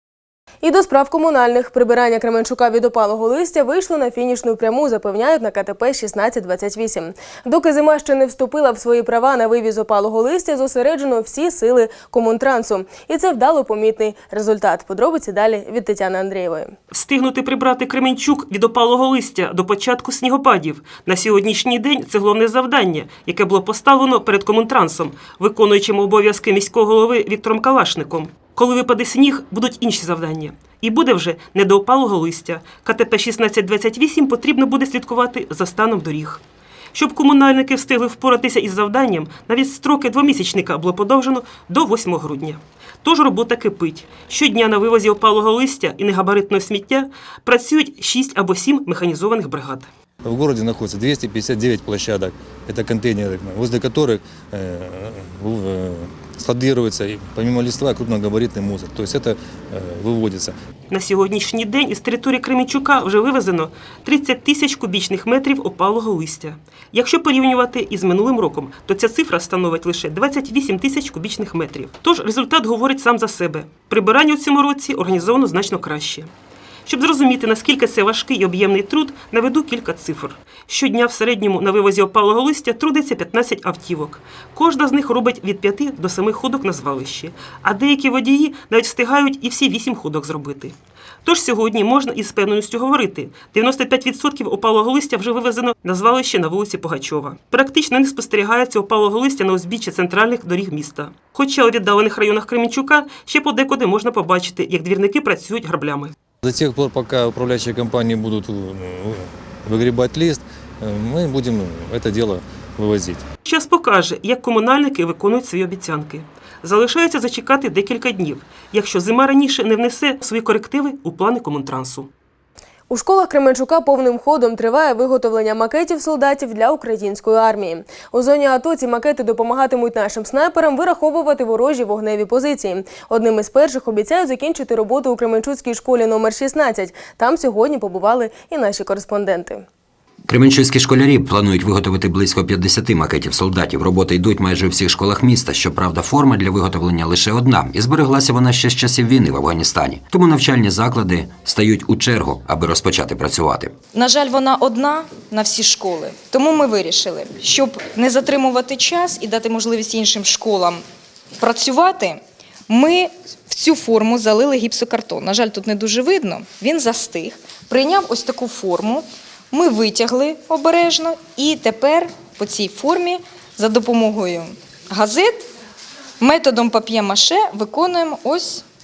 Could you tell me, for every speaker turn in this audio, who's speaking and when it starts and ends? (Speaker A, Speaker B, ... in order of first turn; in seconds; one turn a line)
Speaker A: 0.6-16.7
Speaker B: 16.9-36.4
Speaker B: 36.9-49.9
Speaker C: 50.2-60.5
Speaker B: 60.9-76.3
Speaker B: 76.8-106.1
Speaker C: 106.4-113.2
Speaker B: 113.4-122.1
Speaker A: 122.9-139.6
Speaker D: 140.3-153.7
Speaker E: 153.9-160.8
Speaker E: 161.4-175.4
Speaker E: 176.2-178.6